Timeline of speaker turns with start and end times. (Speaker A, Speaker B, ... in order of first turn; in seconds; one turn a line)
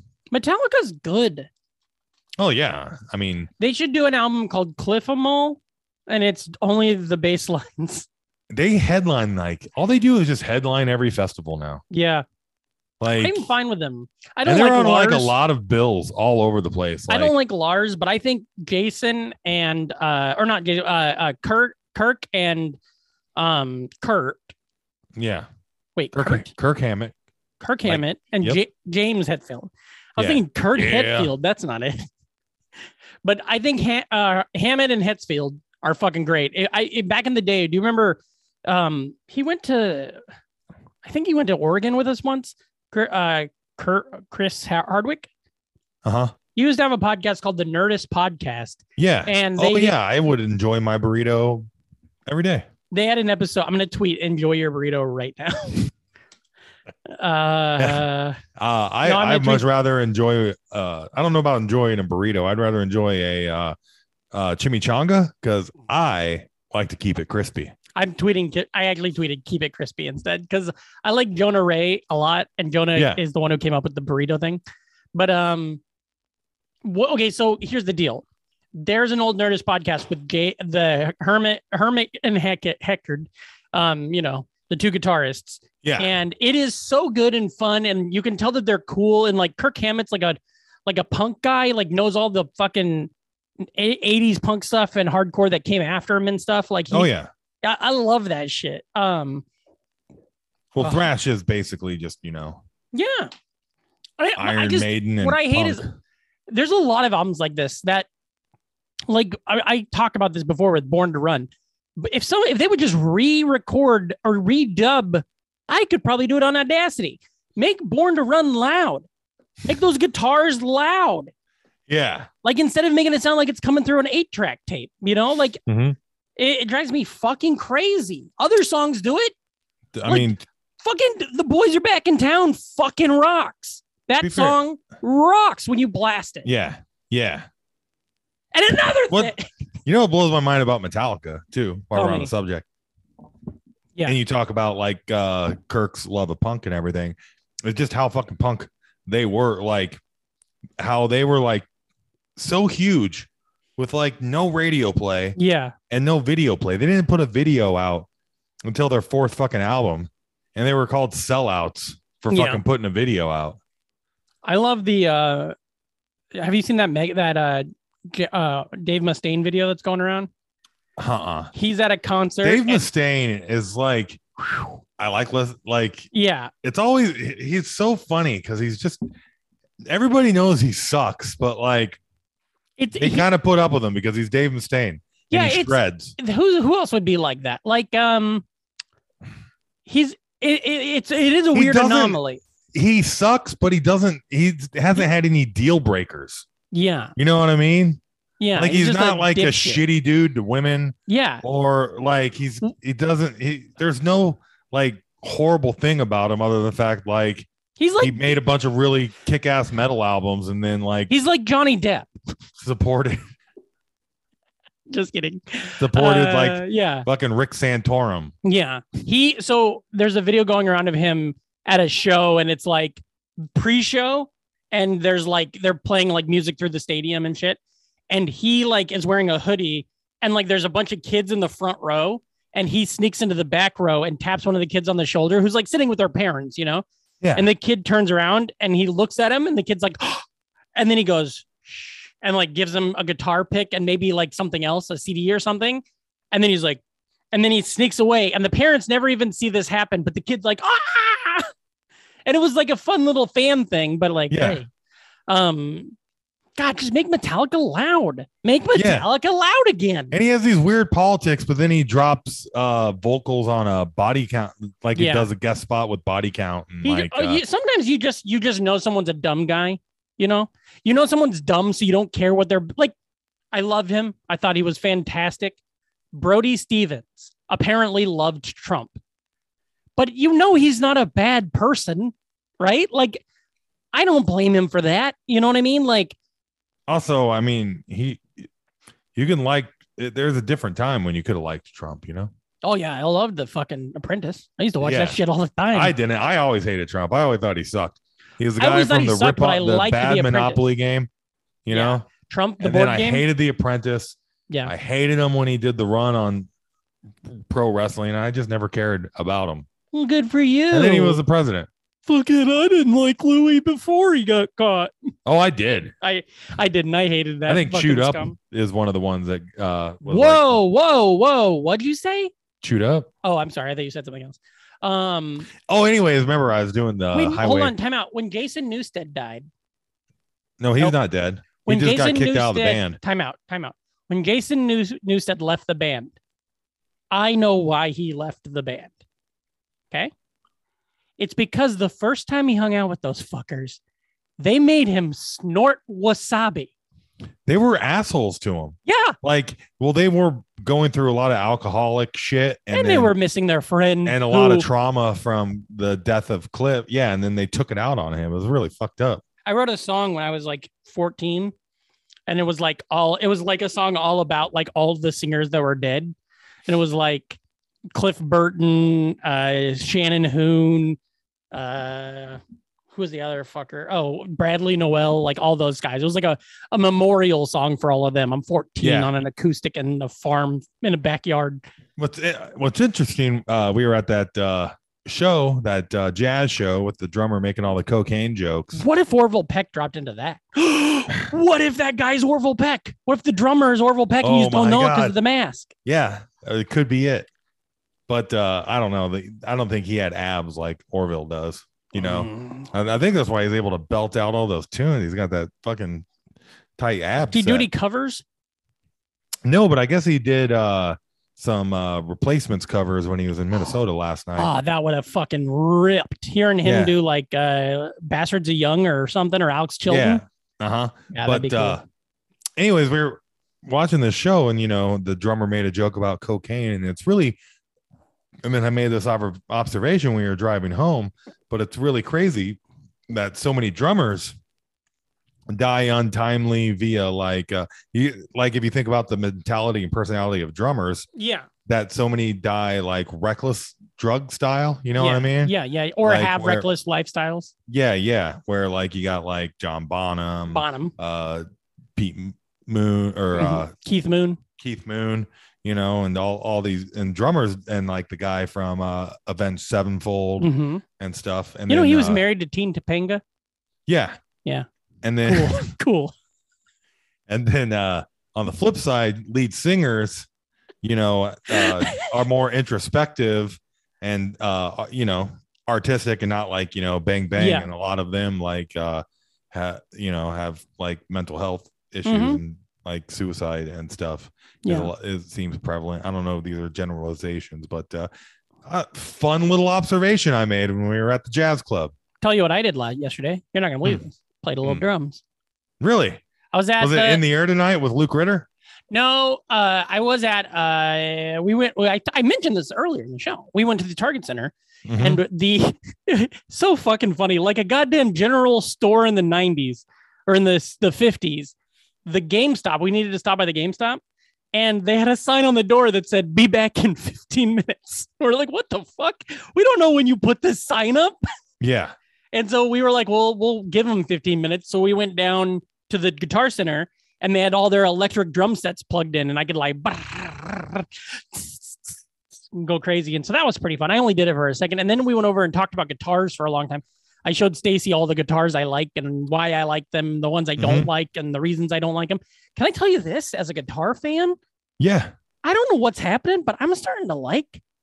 Speaker A: 0.3-1.5
Speaker B: 2.4-3.5
Speaker A: 3.6-8.1
Speaker B: 8.5-11.8
Speaker A: 11.9-12.2
Speaker B: 13.0-13.5
Speaker A: 13.2-15.3
Speaker B: 14.4-17.3
Speaker A: 17.1-22.8
Speaker A: 23.4-24.5
Speaker B: 25.1-25.5
Speaker A: 25.9-26.5
Speaker B: 26.1-27.1
Speaker A: 27.6-32.0
Speaker B: 27.8-28.6
Speaker B: 30.2-31.3
Speaker A: 33.2-40.2
Speaker A: 41.0-45.3
Speaker B: 46.0-46.3
Speaker A: 46.5-50.0
Speaker B: 49.0-51.7
Speaker B: 52.3-52.7
Speaker A: 52.9-55.9
Speaker A: 57.1-58.4
Speaker B: 57.8-58.0
Speaker B: 58.5-63.8
Speaker A: 59.0-59.6
Speaker B: 64.3-67.7
Speaker A: 68.0-74.6
Speaker B: 73.0-73.2
Speaker A: 75.1-75.8
Speaker A: 76.8-78.2
Speaker A: 78.7-93.1
Speaker B: 85.8-86.1
Speaker A: 93.6-97.1
Speaker B: 96.9-97.3
Speaker A: 97.6-99.4
Speaker B: 100.7-102.6
Speaker A: 102.9-103.3
Speaker A: 104.2-105.9
Speaker B: 104.3-105.9
Speaker A: 106.5-108.1
Speaker A: 109.1-119.0
Speaker A: 119.7-121.3
Speaker B: 121.9-122.3
Speaker A: 122.4-125.6
Speaker B: 125.7-126.0
Speaker A: 126.4-129.3
Speaker B: 129.9-130.4
Speaker A: 130.8-136.5
Speaker B: 134.2-134.6
Speaker B: 136.4-137.4
Speaker A: 138.5-139.5
Speaker B: 139.8-142.6
Speaker A: 141.9-142.3
Speaker B: 144.1-150.0
Speaker B: 150.8-151.7
Speaker B: 152.4-155.3
Speaker A: 155.3-155.7
Speaker B: 155.9-158.1
Speaker B: 158.6-163.6
Speaker A: 162.3-162.6
Speaker A: 164.4-165.5
Speaker A: 166.3-170.3
Speaker B: 171.0-171.5
Speaker A: 171.5-172.8
Speaker B: 172.4-176.1
Speaker A: 176.1-176.5
Speaker B: 176.6-179.0
Speaker B: 179.8-182.0
Speaker A: 182.8-183.3
Speaker B: 183.0-186.1
Speaker A: 185.3-188.4
Speaker A: 189.8-192.4
Speaker B: 191.5-192.2
Speaker B: 192.7-196.4
Speaker A: 196.7-197.1
Speaker B: 197.2-198.0
Speaker A: 198.4-199.8
Speaker B: 198.5-207.5
Speaker A: 201.1-201.4
Speaker A: 207.8-208.2
Speaker B: 208.0-211.1
Speaker A: 211.1-212.1
Speaker B: 212.6-213.2
Speaker A: 214.9-217.1
Speaker B: 215.8-218.3
Speaker A: 218.4-227.6
Speaker A: 228.1-240.2
Speaker B: 237.2-237.5
Speaker A: 240.8-246.8
Speaker A: 247.3-251.5
Speaker A: 252.2-254.7
Speaker B: 254.3-254.6
Speaker A: 255.3-255.9
Speaker A: 256.6-260.1
Speaker B: 258.7-259.1
Speaker B: 260.1-267.4
Speaker A: 264.9-265.3
Speaker A: 266.8-272.9
Speaker A: 273.5-275.6
Speaker A: 276.1-279.0
Speaker A: 279.9-283.2
Speaker A: 283.9-286.1
Speaker B: 286.9-288.3
Speaker B: 289.1-292.3
Speaker A: 292.6-295.9
Speaker B: 294.8-295.2
Speaker B: 295.7-301.1
Speaker A: 298.6-300.6
Speaker B: 301.6-302.1
Speaker A: 301.7-303.2
Speaker B: 302.6-306.5
Speaker B: 307.2-309.7
Speaker A: 309.9-311.2
Speaker B: 310.7-311.7
Speaker A: 312.1-314.9
Speaker B: 315.2-315.9
Speaker A: 316.0-318.4
Speaker B: 317.5-320.6
Speaker A: 320.0-322.3
Speaker B: 322.6-323.1
Speaker A: 323.2-325.5
Speaker B: 325.6-327.7
Speaker A: 327.1-329.5
Speaker B: 330.6-333.0
Speaker A: 331.6-336.1
Speaker A: 337.1-338.9
Speaker A: 341.2-343.8
Speaker A: 344.4-346.7
Speaker B: 347.4-353.1
Speaker A: 348.9-349.1
Speaker A: 352.7-354.7
Speaker B: 354.1-359.2
Speaker A: 359.4-361.5
Speaker A: 362.3-366.1
Speaker A: 366.7-367.4
Speaker A: 367.9-371.0
Speaker A: 371.5-372.4
Speaker A: 372.9-381.6
Speaker B: 378.8-379.1
Speaker B: 382.0-388.8
Speaker A: 388.7-395.7
Speaker B: 394.2-395.1
Speaker B: 395.8-397.3
Speaker B: 398.1-406.1
Speaker A: 401.9-402.7
Speaker B: 406.8-407.7
Speaker A: 407.2-408.2
Speaker B: 409.4-414.5
Speaker A: 414.4-420.2
Speaker B: 416.6-416.9
Speaker B: 419.9-421.8
Speaker A: 421.1-421.8
Speaker B: 422.6-427.4
Speaker B: 428.4-434.4
Speaker B: 435.5-441.1
Speaker A: 441.1-441.5
Speaker B: 441.6-446.7
Speaker A: 444.9-447.5
Speaker B: 447.7-451.4
Speaker A: 450.5-450.9
Speaker B: 451.9-453.7
Speaker A: 453.4-454.4
Speaker B: 454.6-462.2
Speaker A: 460.4-460.8
Speaker A: 461.7-463.2
Speaker B: 463.9-464.2
Speaker B: 465.0-465.6
Speaker A: 465.2-466.1
Speaker B: 467.3-470.3
Speaker B: 470.8-488.1
Speaker A: 471.5-472.1
Speaker A: 477.4-477.7
Speaker A: 482.0-482.4
Speaker A: 484.6-484.9
Speaker B: 488.6-491.9
Speaker A: 492.2-495.2
Speaker B: 495.8-496.2
Speaker A: 496.5-497.2
Speaker B: 496.8-498.5
Speaker A: 498.9-511.5
Speaker B: 504.9-505.2
Speaker A: 512.0-514.0
Speaker A: 514.5-521.1
Speaker B: 521.6-521.9
Speaker A: 522.3-532.0
Speaker A: 532.5-544.4
Speaker B: 540.6-540.9
Speaker B: 544.8-545.1
Speaker A: 545.4-547.6